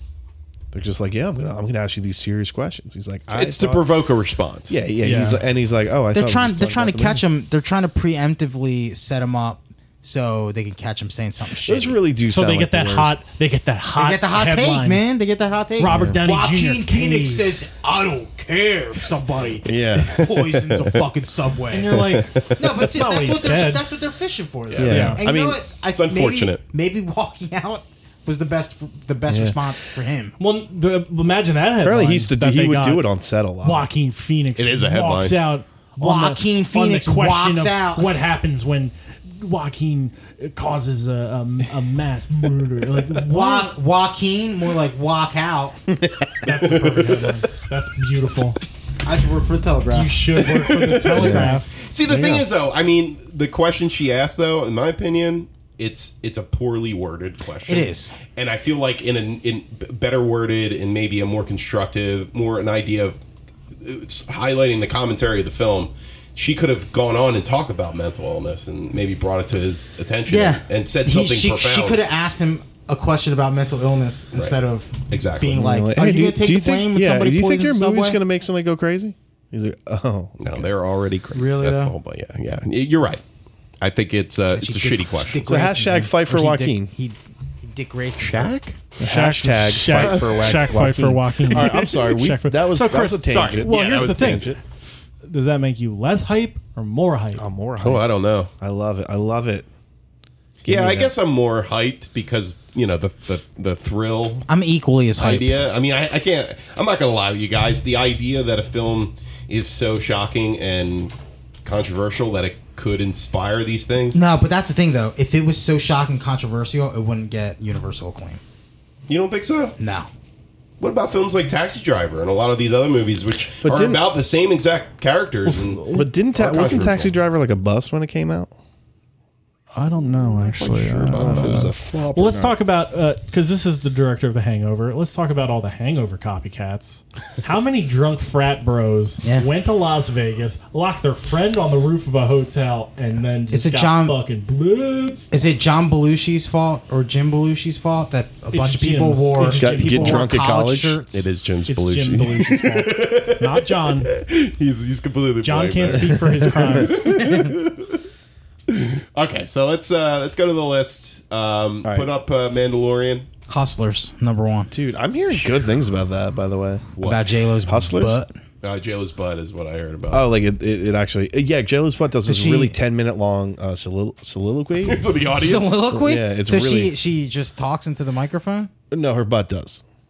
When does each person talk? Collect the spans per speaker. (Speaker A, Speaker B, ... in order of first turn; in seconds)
Speaker A: 0.7-3.8, 4.7-7.2, 11.6-13.2, 15.9-16.2, 19.6-20.2, 24.8-25.6, 29.3-29.6, 31.8-33.9, 45.9-46.3, 51.2-52.5, 75.5-80.7, 85.5-86.9, 89.0-94.6, 97.4-99.7, 100.6-101.1, 123.6-124.1, 125.8-128.5, 131.1-132.6, 149.4-151.0, 155.9-156.5, 161.8-162.1, 164.7-166.9, 167.7-168.2, 170.1-175.1, 175.9-176.9, 178.9-179.8
Speaker B: 3.3-4.8, 20.1-21.0, 21.9-22.8, 24.7-25.1, 25.9-26.6, 34.6-35.4, 46.8-47.2, 50.4-63.2, 63.8-72.0, 74.3-75.6, 80.4-83.2, 83.8-85.5, 88.2-88.8, 92.9-94.6, 97.8-98.5, 100.7-104.5, 105.2-114.2, 119.1-119.8, 120.8-127.1, 130.2-131.7, 151.1-158.0, 158.7-163.3, 167.0-167.3, 168.6-170.3, 174.8-175.8
Speaker C: 5.0-5.4, 12.3-15.0, 15.8-17.5, 21.7-23.9, 24.9-25.2, 30.4-33.1, 33.6-43.7, 46.4-48.6, 49.9-51.7, 89.0-94.6, 95.2-97.5, 125.5-126.1, 129.7-145.4, 148.5-150.4, 151.7-154.1, 155.4-157.0
Speaker D: 6.1-12.0, 13.9-30.4, 36.0-38.1, 43.3-45.8, 49.0-51.6, 57.7-58.2, 70.3-78.2, 81.3-82.0, 84.6-88.5, 104.5-105.7, 114.1-118.4, 119.8-120.1, 139.2-139.5, 143.5-144.2, 145.3-151.2, 157.0-157.6, 163.5-164.7, 167.0-168.3, 172.3-172.7, 175.3-178.7